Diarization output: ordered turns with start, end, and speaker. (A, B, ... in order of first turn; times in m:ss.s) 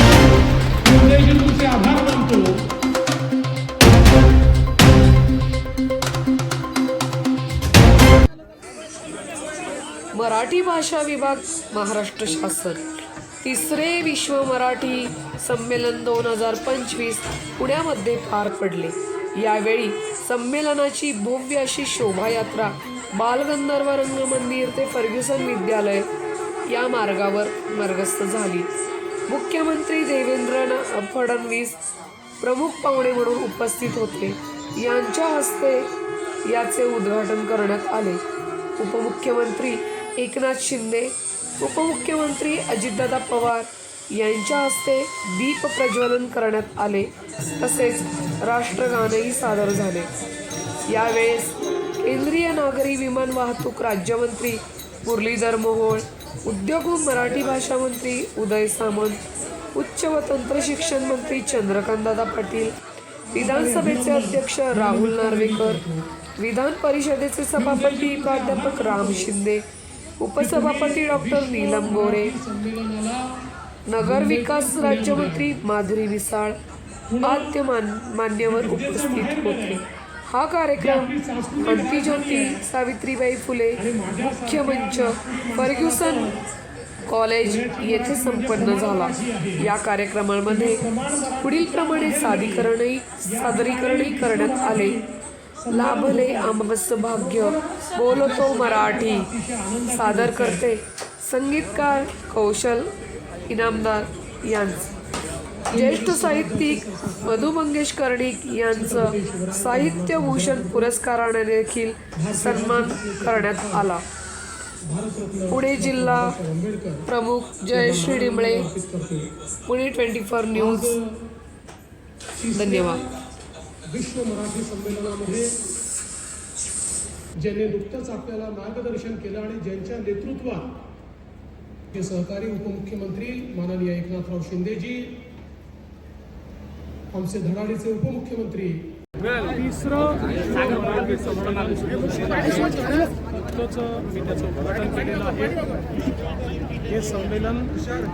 0:00.8-0:02.6 A
0:10.1-0:12.8 B
0:13.4-0:26.1 B
0:26.7-0:28.7 B
0:29.3-0:31.8 B
0:32.4-0:35.9 B
0:36.4-0:38.2 B
0:38.8-0:50.1 B
0:50.9-0:59.2 B
0:59.7-1:02.7 B
1:03.3-1:06.1 A
1:03.3-1:05.8 B
1:06.4-1:09.6 B
1:07.6-1:09.3 A
1:10.2-1:12.3 B
1:10.4-1:13.4 A
1:13.9-1:16.6 B
1:14.0-1:15.5 A
1:17.1-1:17.6 A
1:17.2-1:26.3 B
1:18.4-1:19.8 A
1:20.8-1:22.6 A
1:23.8-1:26.4 A
1:27.1-1:35.0 B
1:27.4-1:29.7 A
1:30.4-1:32.7 A
1:33.2-1:40.6 A
1:35.7-1:39.3 B
1:39.9-1:42.9 B
1:43.5-1:44.9 B
1:45.7-1:47.5 A
1:45.7-1:54.0 B
1:48.7-1:50.9 A
1:52.1-1:53.9 A
1:54.8-1:57.1 A
1:55.5-1:56.4 B
1:57.0-1:58.7 B
1:57.7-1:59.3 A
1:59.6-2:01.0 B
2:00.5-2:01.2 A
2:02.4-2:03.0 A
2:02.5-2:03.1 B
2:03.8-2:05.6 A
2:07.4-2:10.7 A
2:11.9-2:15.2 A
2:17.1-2:25.8 A
2:26.8-2:27.7 A